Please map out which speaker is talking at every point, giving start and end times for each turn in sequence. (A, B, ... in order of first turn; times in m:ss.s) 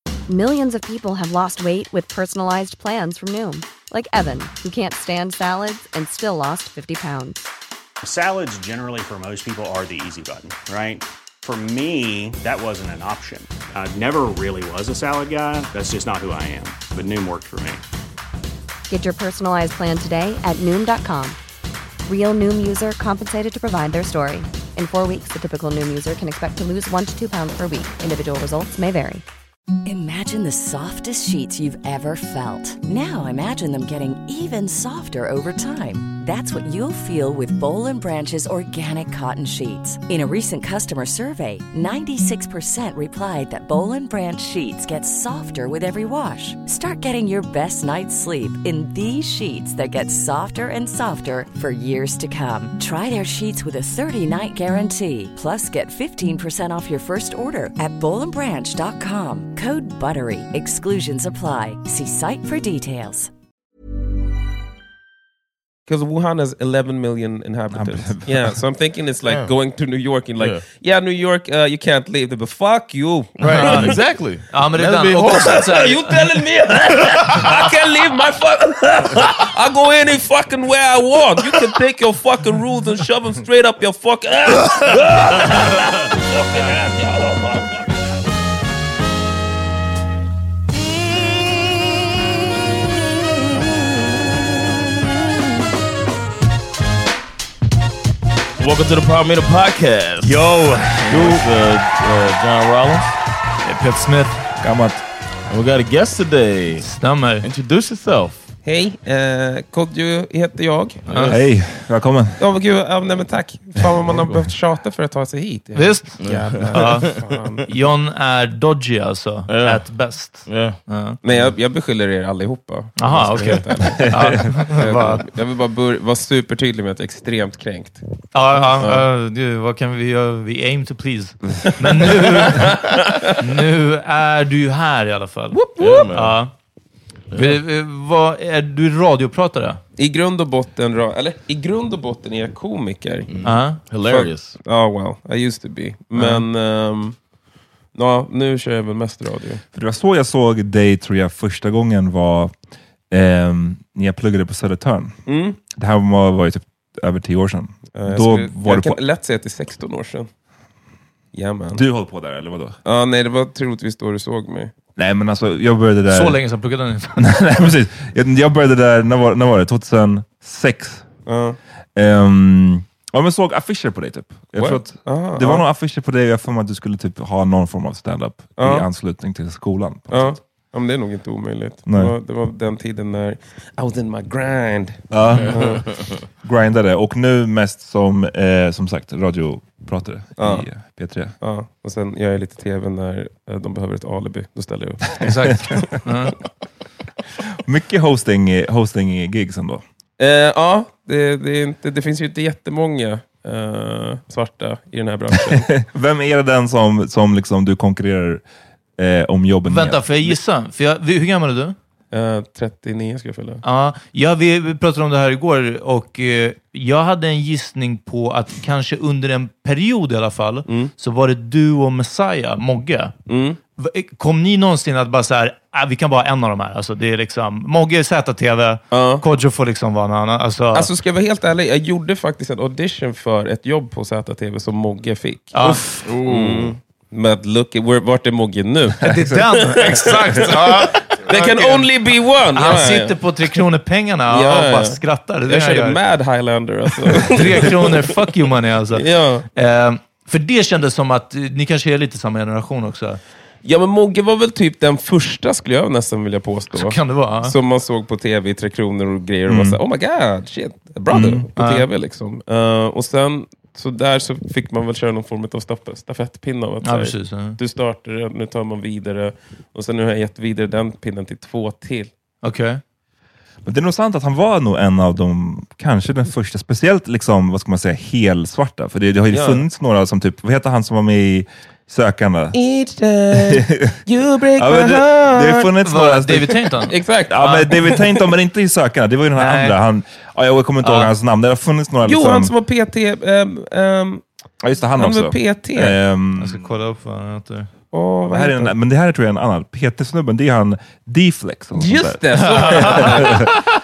0:00.3-0:07.4 A
0:08.0-0:17.8 B
0:18.9-0:21.4 A
0:22.1-0:29.2 A
0:29.8-1:03.3 C
1:05.9-1:13.9 D
1:07.7-1:08.5 E
1:09.2-1:09.5 F
1:10.4-1:10.6 F
1:13.4-1:15.6 F
1:13.4-1:14.0 G
1:14.5-1:16.2 G
1:15.2-1:27.9 D
1:38.6-1:43.1 F
1:40.2-1:41.4 G
1:43.6-1:44.4 G
1:44.6-1:45.0 E
1:45.5-1:48.4 F
1:46.8-1:47.5 G
1:48.6-1:51.0 D
1:51.1-1:51.4 F
1:51.1-1:51.3 G
1:51.1-1:52.4 E
1:52.4-1:57.7 D
1:54.1-1:54.4 F
1:55.7-1:57.1 G
1:56.2-1:57.2 F
1:57.7-2:01.2 G
1:59.5-2:00.8 F
2:01.2-2:09.1 D
2:03.0-2:05.2 G
2:03.4-2:03.6 F
2:04.0-2:04.6 E
2:08.3-2:16.5 G
2:12.1-2:13.4 D
2:15.5-2:16.1 D
2:15.8-2:16.4 F
2:17.3-2:17.6 F
2:17.3-2:19.8 G
2:20.0-2:23.3 D
2:23.3-2:24.6 F
2:23.4-2:23.8 G
2:24.0-2:27.2 D
2:26.2-2:26.4 G
2:28.0-2:29.6 D
2:29.7-2:32.5 E
2:33.1-2:39.0 E
2:35.3-2:35.6 D
2:37.9-2:40.3 D
2:41.3-2:41.8 D
2:41.7-2:42.8 E
2:42.8-2:44.7 D
2:45.0-2:46.4 E
2:46.1-2:47.7 G
2:47.2-2:51.1 E
2:51.3-2:51.6 D
2:52.0-3:00.4 E
2:54.6-2:55.6 D
2:58.6-2:58.9 D
3:00.1-3:05.9 D
3:01.9-3:02.1 E
3:05.1-3:11.4 E
3:05.4-3:06.1 F
3:10.4-3:10.7 D
3:11.4-3:15.2 D
3:15.2-3:16.0 E
3:15.2-3:16.3 G
3:17.6-3:19.8 E
3:20.2-3:25.7 D
3:25.4-3:28.4 E
3:29.0-3:30.4 E
3:29.6-3:31.8 G
3:32.1-3:33.6 D
3:33.6-3:43.1 G
3:40.7-3:40.9 D
3:43.3-3:43.6 D
3:43.8-3:50.9 G
3:48.9-3:49.2 D
3:50.7-4:00.7 D
3:55.5-3:56.0 G
3:56.0-3:56.8 F
3:59.0-4:01.9 G
4:01.2-4:03.2 D
4:02.5-4:06.0 G
4:04.3-4:08.1 D
4:07.2-4:13.2 G
4:08.9-4:09.5 D
4:13.6-4:32.1 D
4:16.7-4:17.5 G
4:19.5-4:19.8 E
4:21.1-4:21.5 E
4:21.6-4:21.9 G
4:26.8-4:27.6 G
4:32.4-4:32.8 G
4:33.6-4:42.6 E
4:39.3-4:39.6 D
4:42.5-4:45.7 D
4:43.3-4:44.0 E
4:44.6-4:46.6 E
4:45.8-4:47.7 G
4:46.9-4:48.3 D
4:47.3-4:52.5 E
4:49.4-4:49.8 G
4:50.8-4:51.1 G
4:52.0-4:54.2 D
4:54.6-4:56.6 E
4:55.0-4:56.0 D
4:56.4-4:57.7 G
4:57.9-4:58.7 D
4:58.3-5:03.5 E
5:01.8-5:03.5 D
5:02.4-5:03.3 G